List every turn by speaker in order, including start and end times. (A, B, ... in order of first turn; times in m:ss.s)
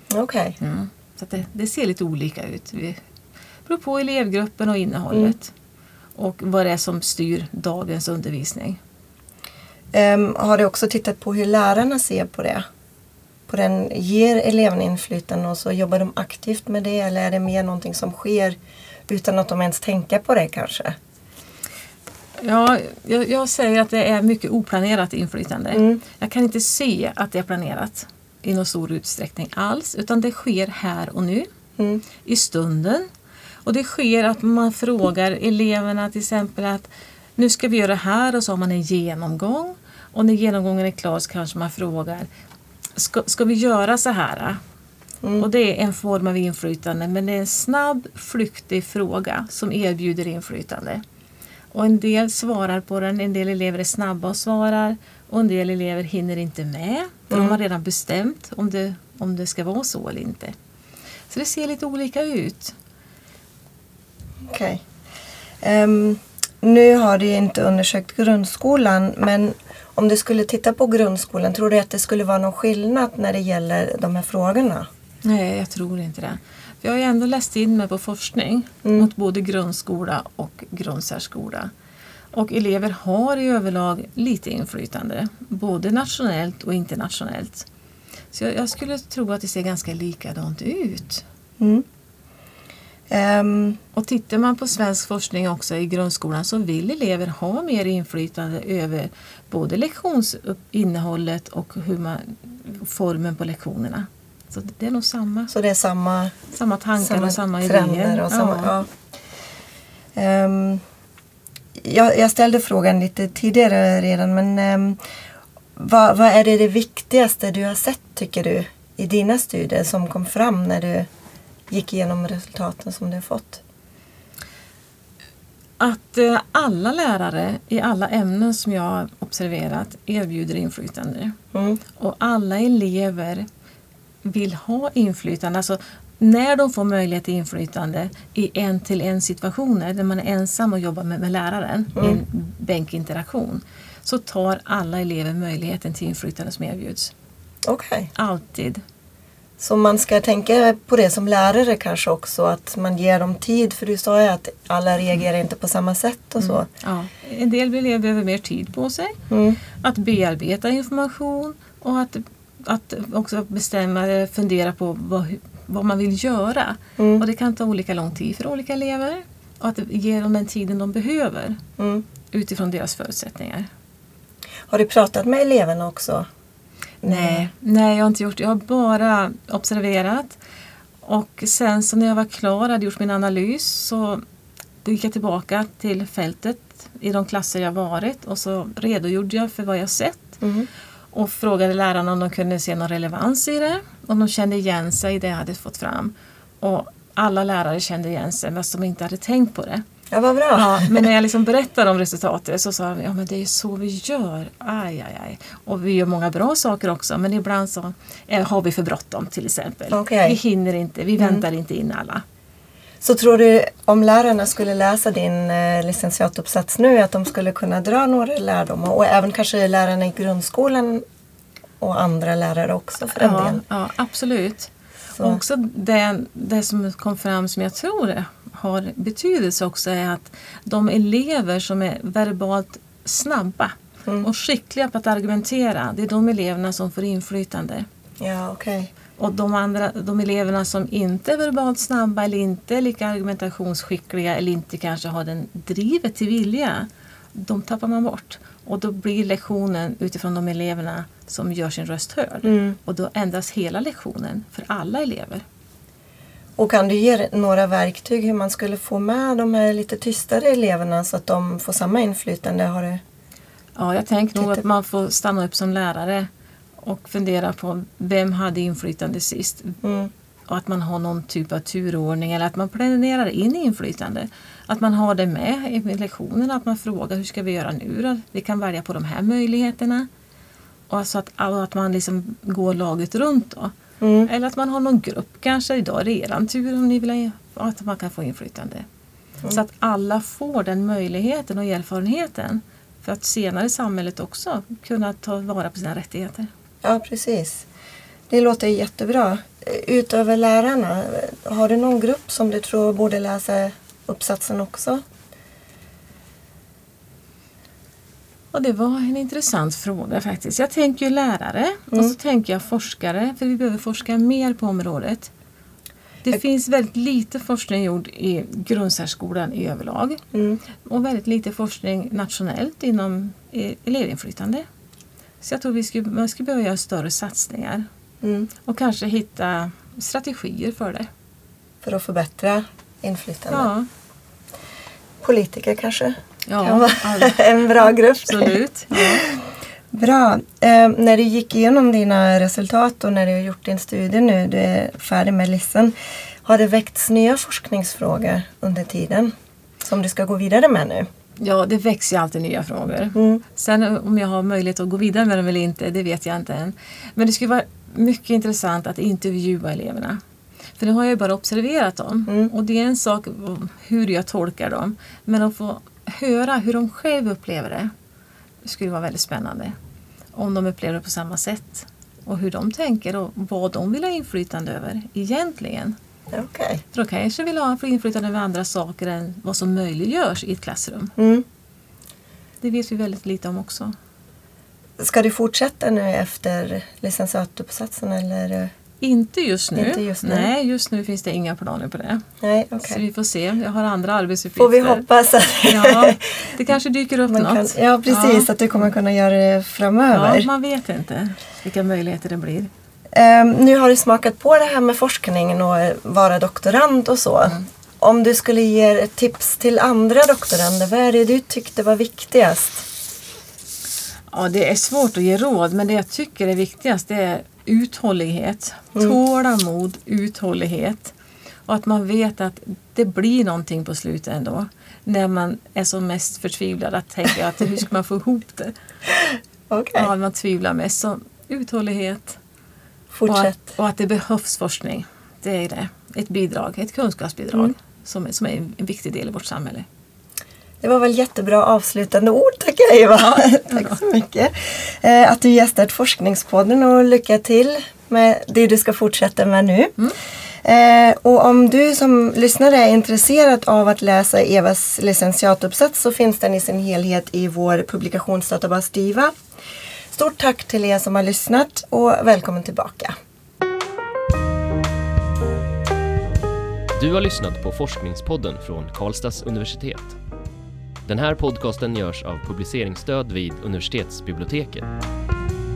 0:00.1-0:00.6 A
0:00.6-0:03.0 B
0:03.6-0:05.5 B
0:06.1-0:08.8 B
0:09.9-0:12.6 A
0:13.5-0:20.9 A
0:22.4-0:31.5 B
0:25.7-0:26.0 A
0:31.8-0:32.0 A
0:32.2-0:33.1 B
0:33.6-0:42.3 B
0:43.0-0:44.6 B
0:45.4-0:51.0 B
0:51.7-1:00.5 B
0:57.3-0:57.6 A
1:01.3-1:02.7 B
1:04.5-1:04.8 A
1:05.6-1:14.9 A
1:15.2-1:21.7 B
1:18.8-1:19.1 A
1:22.3-1:27.6 B
1:28.3-1:31.2 B
1:31.6-1:31.8 A
1:33.1-1:33.8 A
1:33.9-1:45.5 B
1:45.5-1:46.3 A
1:46.5-1:48.8 B
1:47.0-1:48.9 A
1:50.1-1:50.8 A
1:51.8-1:55.0 A
1:55.8-2:01.1 A
2:01.7-2:03.6 A
2:05.8-2:11.4 B
2:11.5-2:11.8 A
2:12.0-2:13.4 B
2:14.2-2:27.1 B
2:22.0-2:22.2 A
2:27.6-2:28.1 A
2:28.1-2:28.8 B
2:29.6-2:36.7 A
2:36.4-2:39.2 B
2:39.3-2:39.6 A
2:39.7-2:51.6 B
2:47.0-2:47.2 A
2:51.8-2:52.0 A
2:52.3-2:53.7 B
2:54.7-2:56.3 A
2:57.0-2:57.5 A
2:57.0-3:00.4 B
3:01.0-3:04.2 B
3:04.8-3:10.4 B
3:10.4-3:10.7 A
3:11.1-3:19.8 B
3:20.1-3:21.1 A
3:20.5-3:32.2 B
3:29.9-3:30.4 A
3:31.2-3:31.4 A
3:33.0-3:41.0 A
3:41.8-3:43.6 A
3:43.1-3:57.8 B
3:45.2-3:45.4 A
3:58.2-3:58.9 A
3:59.2-4:15.4 B
4:12.4-4:12.8 A
4:16.6-4:23.0 A
4:23.8-4:26.3 B
4:24.4-4:24.6 A
4:26.8-4:29.8 B
4:29.8-4:30.1 A
4:30.5-4:40.1 B
4:40.9-4:43.7 B
4:44.0-4:44.3 A
4:44.2-4:48.8 B
4:49.5-4:56.5 B
4:56.8-4:57.6 A
4:58.3-5:05.0 A
5:08.5-5:15.3 B
5:16.2-5:20.2 B
5:20.3-5:20.6 A
5:20.8-5:24.6 B
5:25.4-5:27.8 B
5:28.2-5:28.5 A
5:28.6-5:31.1 B
5:31.8-5:33.7 A
5:33.5-5:33.9 B
5:35.2-5:45.9 A
5:36.5-5:39.2 B
5:46.4-5:51.1 A
5:51.4-6:00.2 B
5:53.1-5:53.4 A
6:00.8-6:07.9 B
6:08.6-6:09.7 B
6:10.3-6:15.9 B
6:16.3-6:16.8 A
6:16.9-6:21.1 B
6:21.2-6:21.4 A
6:22.6-6:23.9 B
6:25.0-6:28.7 A
6:29.0-6:32.2 B
6:29.8-6:30.5 A
6:32.4-6:33.0 A
6:32.8-6:35.0 B
6:34.6-6:36.2 A
6:35.6-6:38.5 B
6:37.3-6:40.5 A
6:40.1-6:42.7 B
6:43.1-6:52.8 A
6:54.3-7:01.1 B
7:01.7-7:08.7 B
7:09.7-7:10.1 A
7:09.9-7:12.4 B
7:13.1-7:13.6 A
7:13.2-7:19.8 B
7:20.8-7:29.9 A
7:23.2-7:24.0 B
7:30.6-7:39.3 A
7:40.1-7:43.1 A
7:46.9-7:50.2 C
7:51.1-7:54.9 C